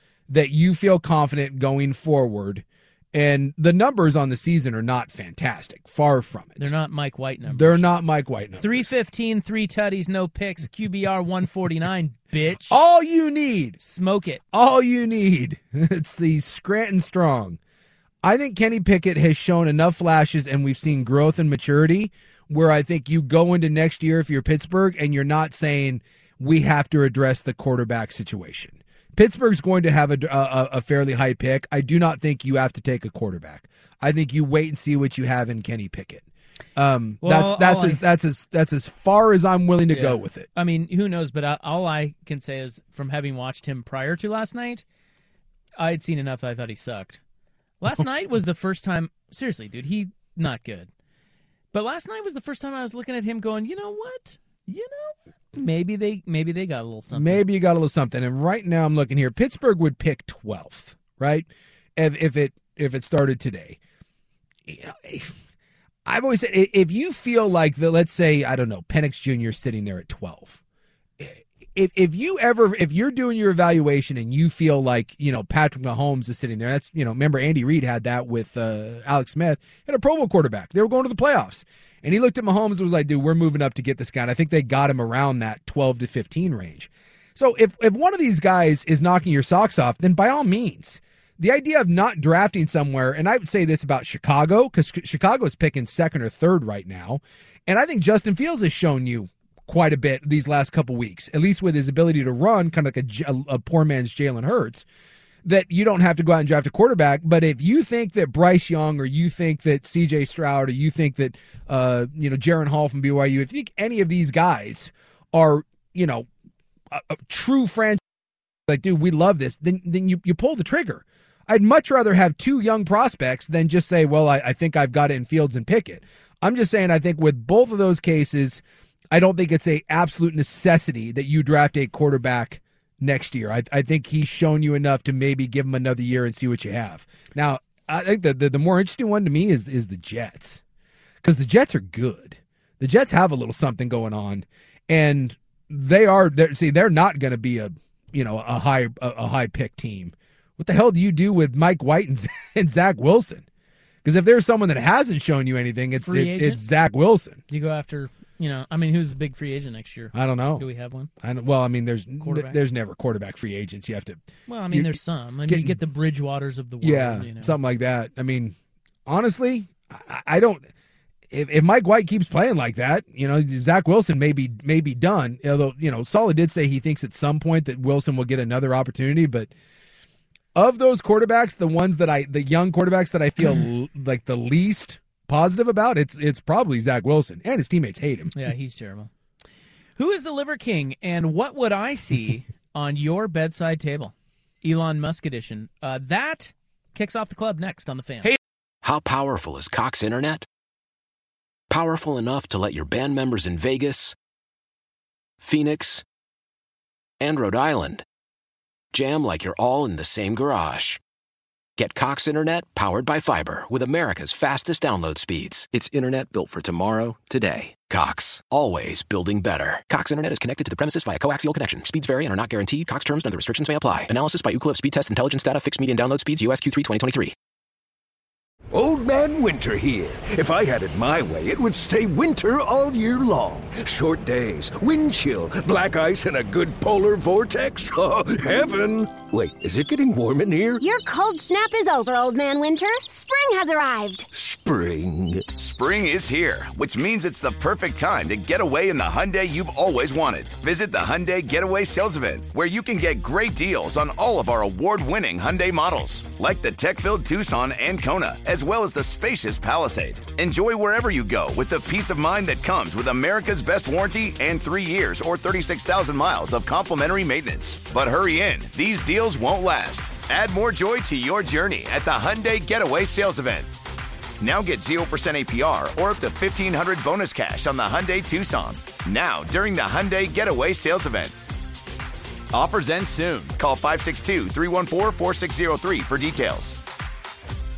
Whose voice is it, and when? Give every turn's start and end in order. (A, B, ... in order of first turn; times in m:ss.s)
0:00.3-0:06.7 A
0:06.6-0:07.8 B
0:07.5-0:08.9 A
0:08.6-0:12.8 B
0:12.6-0:13.8 A
0:13.8-0:14.4 B
0:14.5-0:17.6 A
0:18.2-0:36.2 A
0:36.8-0:40.5 A
0:37.2-0:38.0 B
0:39.9-0:44.8 B
0:45.8-0:47.2 B
0:47.8-0:50.9 B
0:51.7-0:57.4 B
0:57.1-1:03.8 A
1:04.7-1:05.4 A
1:06.0-1:10.6 A
1:11.2-1:44.8 A
1:45.4-1:56.3 A
1:56.9-1:58.0 A
1:58.7-2:20.6 A
2:21.2-2:33.4 A
2:34.0-2:37.4 A
2:36.0-2:36.6 B
2:37.5-2:41.1 B
2:40.1-2:40.6 A
2:41.2-2:45.0 A
2:42.2-2:42.6 B
2:44.5-2:47.6 B
2:45.5-2:45.8 A
2:46.8-2:50.7 A
2:51.3-2:59.5 A
3:00.5-3:08.3 A
3:08.3-3:09.1 B
3:10.0-3:18.3 B
3:18.8-3:20.4 C
3:21.7-3:24.1 C
3:25.4-3:26.0 C
3:27.2-3:28.0 C
3:28.9-3:31.0 C
3:31.8-3:47.3 C
3:48.7-4:00.8 D
4:00.8-4:04.2 E
4:04.3-4:05.5 D
4:05.5-4:33.7 F
4:34.4-4:41.4 F
4:42.5-4:46.8 F